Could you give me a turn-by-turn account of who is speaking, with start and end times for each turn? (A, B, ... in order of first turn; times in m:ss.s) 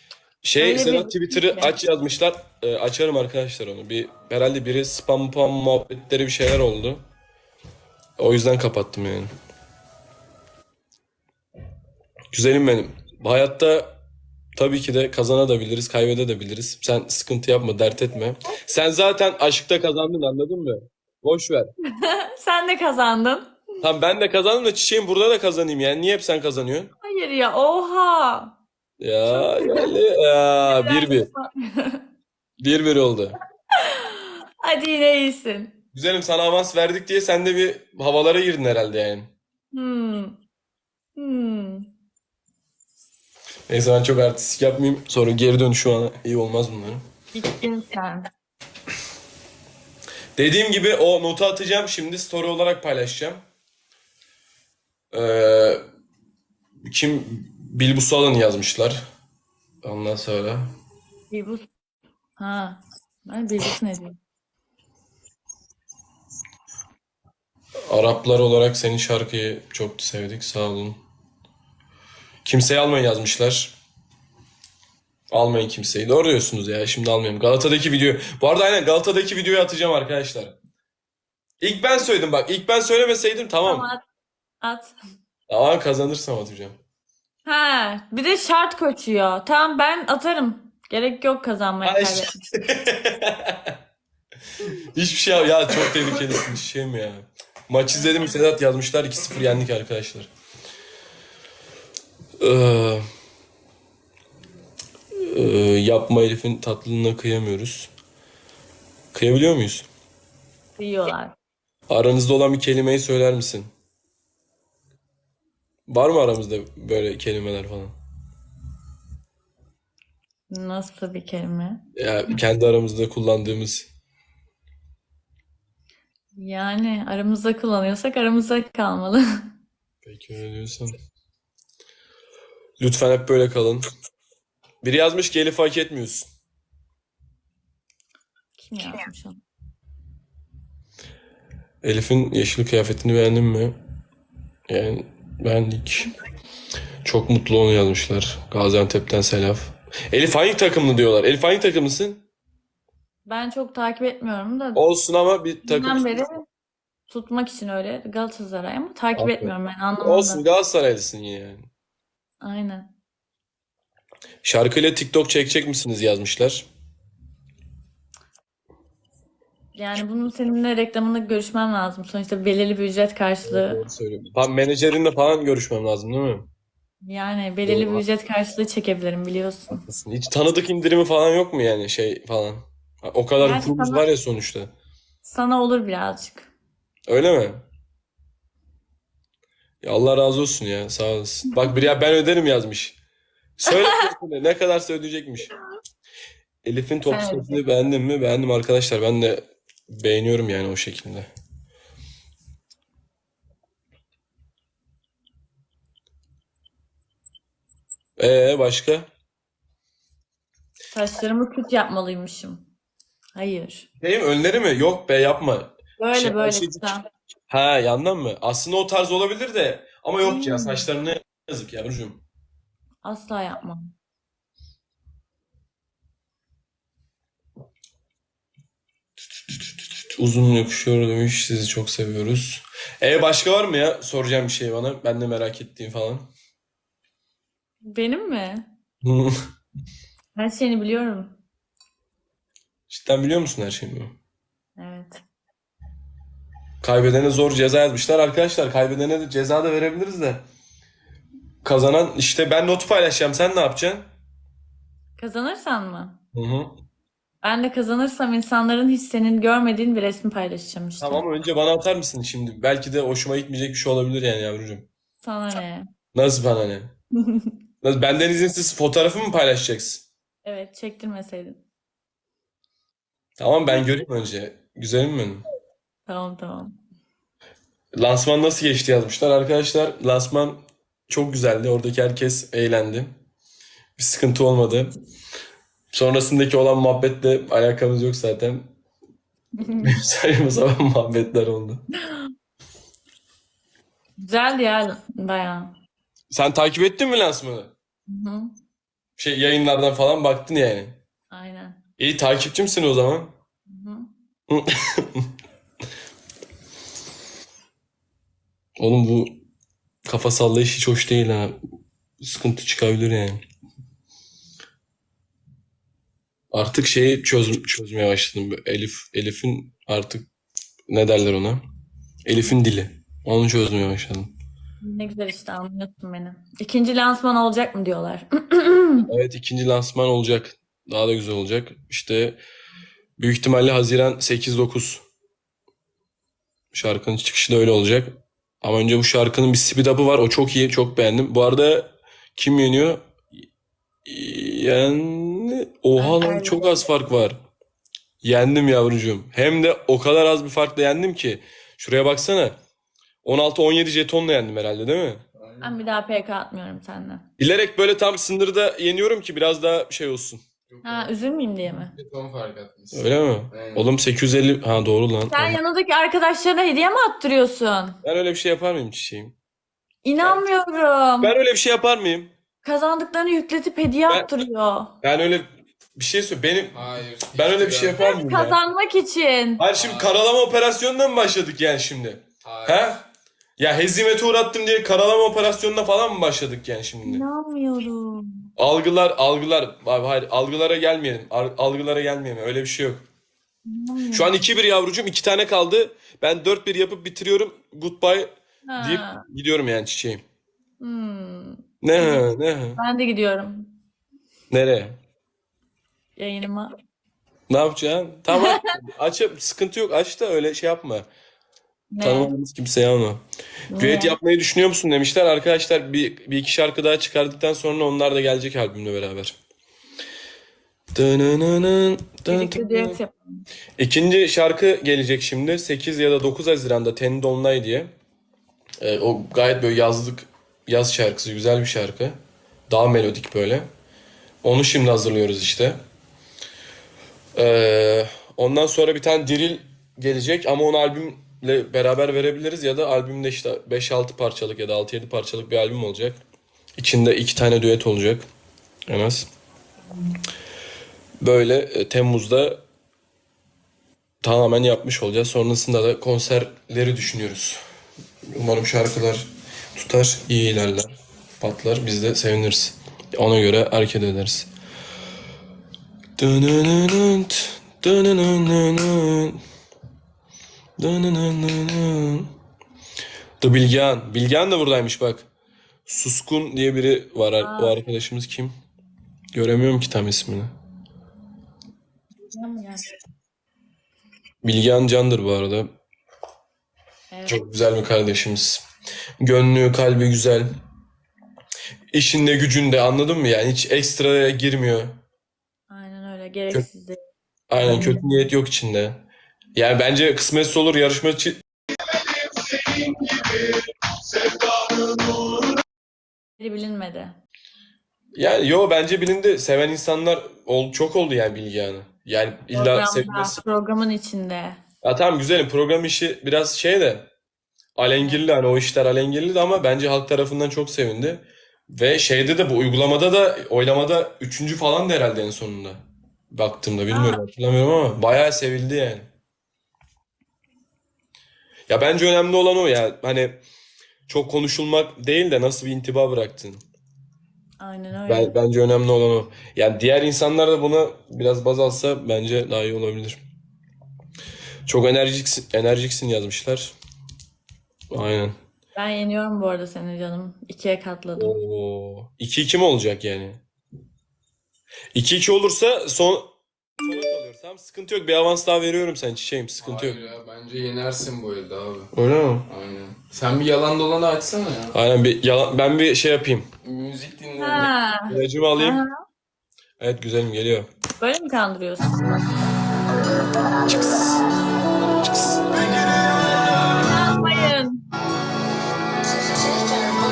0:00.4-0:07.0 A
0:00.6-0:01.8 B
0:08.2-0:09.3 A
0:12.3-0:14.0 A
0:14.6-0:21.7 A
0:21.9-0:23.6 B
0:23.8-0:26.9 A
0:27.0-0:28.5 B
0:29.0-0:31.3 A
0:29.3-0:29.9 B
0:30.7-0:32.0 B
0:32.6-0:33.4 A
0:33.8-0:35.8 B
0:35.9-0:39.3 A
0:39.7-0:40.4 B
0:41.2-0:41.9 B
0:43.7-0:47.0 A
0:47.3-0:48.3 B
0:50.4-0:53.4 A
0:55.1-0:55.8 A
0:56.8-0:59.0 A
0:59.8-1:00.7 A
1:01.3-1:01.6 B
1:02.4-1:04.2 B
1:07.9-1:11.0 A
1:12.4-1:13.7 A
1:15.3-1:20.6 A
1:21.6-1:23.9 A
1:23.6-1:24.0 B
1:24.6-1:24.9 B
1:25.5-1:26.8 A
1:27.4-1:32.4 B
1:31.8-1:33.7 A
1:34.6-1:40.3 A
1:42.4-1:43.0 A
1:45.2-1:47.9 A
1:49.1-1:49.8 A
1:50.8-1:51.3 B
1:51.9-1:53.7 A
1:55.9-1:57.9 A
2:00.5-2:01.8 B
2:02.0-2:03.9 A
2:06.4-2:09.2 B
2:10.0-2:11.0 A
2:12.8-2:13.8 A
2:14.8-2:16.3 A
2:18.6-2:19.4 B
2:21.8-2:23.8 A
2:24.7-2:26.1 A
2:27.0-2:32.2 A
2:33.2-2:34.8 B
2:34.7-2:36.2 A
2:35.6-2:36.4 B
2:37.1-2:40.4 B
2:39.2-2:41.7 A
2:42.4-2:42.9 B
2:44.4-2:46.7 A
2:49.8-2:53.8 B
2:53.4-2:56.5 A
2:57.0-2:59.8 B
2:57.6-2:58.0 A
2:59.7-3:04.7 A
3:03.4-3:04.0 B
3:05.2-3:06.5 B
3:07.1-3:07.6 A
3:09.8-3:13.0 A
3:11.6-3:11.9 B
3:13.6-3:15.5 A
3:13.7-3:14.0 B
3:16.6-3:21.3 A
3:17.0-3:17.6 B
3:28.2-3:29.0 A
3:30.9-3:32.6 B
3:33.4-3:33.9 B
3:34.0-3:36.9 A
3:36.0-3:37.0 B
3:37.5-3:42.2 A
3:40.2-3:40.9 B
3:43.0-3:43.9 B
3:50.2-3:56.3 A
3:57.9-3:58.7 B
3:59.0-3:59.4 A
4:00.3-4:01.4 B
4:02.9-4:04.1 A
4:04.8-4:05.2 B
4:06.8-4:10.4 A
4:11.6-4:14.0 A
4:15.2-4:16.2 B
4:16.3-4:16.7 A
4:17.4-4:21.2 B
4:21.0-4:24.9 A
4:25.2-4:25.8 B
4:26.1-4:26.9 A
4:27.2-4:27.5 B
4:27.8-4:30.1 A
4:30.4-4:31.6 B
4:33.4-4:35.4 A
4:36.1-4:36.7 B
4:38.0-4:43.1 A
4:44.0-4:44.9 A
4:45.9-4:48.7 A
4:49.6-4:49.9 B
4:49.8-4:51.8 A
4:54.2-4:55.7 B
4:56.3-4:57.7 A
4:58.1-4:58.5 B
4:59.2-5:01.0 A
5:01.3-5:01.8 B
5:02.0-5:03.3 A
5:03.7-5:04.1 B
5:04.5-5:05.3 A
5:08.8-5:09.4 A
5:10.0-5:11.6 A
5:12.2-5:13.4 A
5:16.5-5:20.3 A
5:20.9-5:21.6 A
5:22.2-5:24.3 A
5:24.8-5:29.1 B
5:29.1-5:32.4 A
5:33.2-5:35.0 A
5:36.7-5:43.0 A
5:44.0-5:47.4 A
5:46.0-5:46.8 B
5:48.2-5:52.6 A
5:53.2-5:55.2 A
5:55.4-5:55.8 C
5:55.6-5:57.2 B
5:57.4-6:00.4 A
6:00.7-6:01.1 C
6:00.8-6:01.9 B
6:01.9-6:03.8 C
6:02.9-6:05.6 A
6:05.3-6:08.0 B
6:08.0-6:09.4 A
6:10.0-6:11.3 B
6:11.2-6:12.3 A
6:12.6-6:14.9 B
6:15.0-6:18.6 A
6:16.7-6:18.0 C
6:18.0-6:19.6 B
6:19.6-6:23.1 A
6:19.7-6:20.1 C
6:22.4-6:22.9 C
6:23.6-6:27.2 A
6:27.0-6:28.4 B
6:28.6-6:33.0 A
6:33.6-6:34.3 B
6:34.1-6:40.2 A
6:38.7-6:39.2 B
6:40.8-6:43.7 B
6:41.8-6:42.8 A
6:44.5-6:45.0 A
6:46.2-6:46.7 B
6:47.5-6:51.1 A
6:48.3-6:48.7 B
6:51.9-6:52.3 B
6:52.0-6:53.2 A
6:53.7-6:54.2 B
6:53.8-6:59.4 A
7:00.9-7:03.0 A
7:02.3-7:03.4 B
7:03.8-7:07.9 A
7:08.8-7:12.2 A
7:12.7-7:13.7 A
7:14.4-7:15.8 A
7:17.4-7:26.2 A
7:26.8-7:28.2 A
7:28.9-7:29.3 A
7:31.2-7:32.6 A
7:34.2-7:37.6 A
7:38.3-7:44.5 A
7:46.2-7:49.4 A
7:50.8-7:52.3 A
7:53.4-7:55.3 A
7:55.9-7:58.5 A
7:57.4-7:57.8 B
7:59.3-8:00.5 A
8:02.2-8:02.9 B
8:04.4-8:05.7 A
8:07.1-8:07.4 B
8:07.2-8:08.6 A
8:09.2-8:10.5 A
8:11.9-8:15.0 A
8:15.7-8:17.0 B
8:17.5-8:21.4 A
8:17.6-8:18.3 B
8:22.4-8:23.5 A
8:24.2-8:25.4 A
8:26.4-8:27.2 B
8:28.2-8:33.4 A
8:32.5-8:34.6 B
8:34.8-8:37.1 A
8:37.8-8:49.1 A
8:38.0-8:38.2 B
8:46.9-8:47.2 B
8:51.7-8:53.4 A
8:54.1-8:56.6 A
8:57.6-8:58.3 B
8:58.0-9:03.2 A
9:04.7-9:06.7 A
9:07.9-9:08.3 A
9:08.8-9:11.3 B
9:11.2-9:13.4 A
9:14.9-9:20.0 A
9:19.6-9:21.9 C
9:21.9-9:22.5 A
9:22.5-9:24.7 C
9:24.7-9:26.5 A
9:26.6-9:27.7 C
9:27.4-9:29.0 B
9:28.1-9:28.8 A
9:29.8-9:30.7 A
9:31.0-9:32.2 B
9:33.6-9:34.2 A
9:35.1-9:36.8 A
9:36.7-9:37.8 B